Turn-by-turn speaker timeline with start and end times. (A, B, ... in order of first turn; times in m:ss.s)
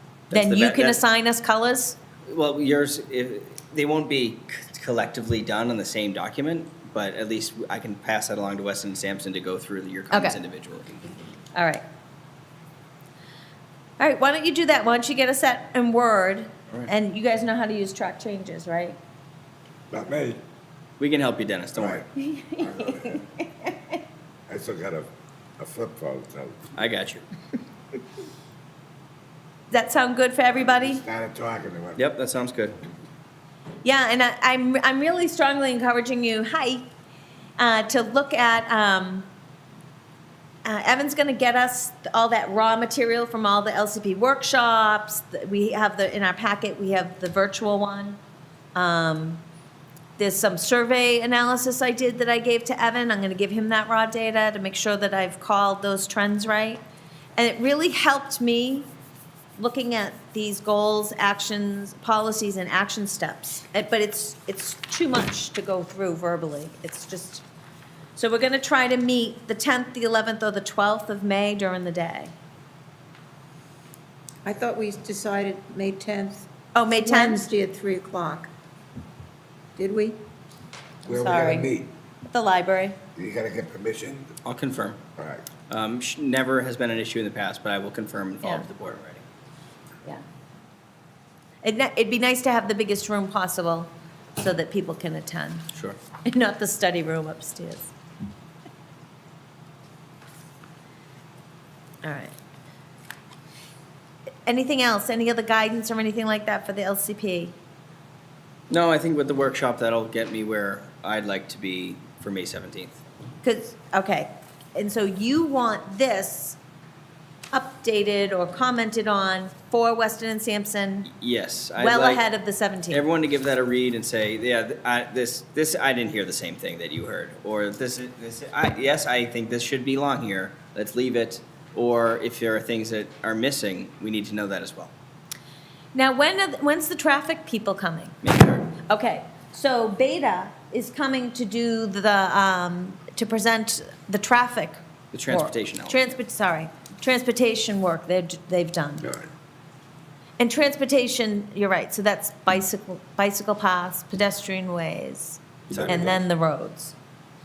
0:00.3-0:01.0 A
0:00.3-0:02.0 B
0:02.3-0:11.1 A
0:10.1-0:10.4 B
0:11.5-0:11.8 B
0:14.0-0:19.0 B
0:19.9-0:20.4 C
0:21.0-0:22.1 A
0:21.7-0:22.0 C
0:22.2-0:23.7 B
0:22.6-0:23.2 C
0:24.5-0:25.1 C
0:25.6-0:26.7 C
0:26.8-0:27.2 A
0:29.7-0:31.0 B
0:30.7-0:32.0 C
0:32.0-0:32.8 A
0:33.8-0:36.8 B
0:37.6-0:39.3 B
0:40.6-0:48.2 B
0:48.8-0:49.4 B
0:50.2-0:56.8 B
0:57.4-0:58.9 B
0:59.6-1:07.4 B
1:08.2-1:12.3 B
1:14.4-1:16.5 D
1:16.7-1:17.5 B
1:17.0-1:18.5 D
1:19.8-1:20.2 D
1:21.0-1:21.7 B
1:21.0-1:21.9 C
1:22.3-1:23.0 B
1:23.1-1:24.3 C
1:24.4-1:25.0 A
1:25.2-1:25.5 C
1:25.7-1:29.2 A
1:31.6-1:35.7 B
1:36.2-1:37.9 B
1:42.0-1:42.3 B
1:44.4-1:47.6 B
1:48.7-1:53.0 A
1:53.4-1:56.6 B
1:57.5-2:01.1 B
2:01.1-2:02.2 A
2:01.8-2:03.0 B
2:02.9-2:14.9 A
2:15.9-2:18.2 B
2:18.2-2:18.7 A
2:18.8-2:24.8 B
2:25.1-2:26.1 A
2:25.3-2:29.1 B
2:30.4-2:37.0 B
2:35.7-2:36.2 C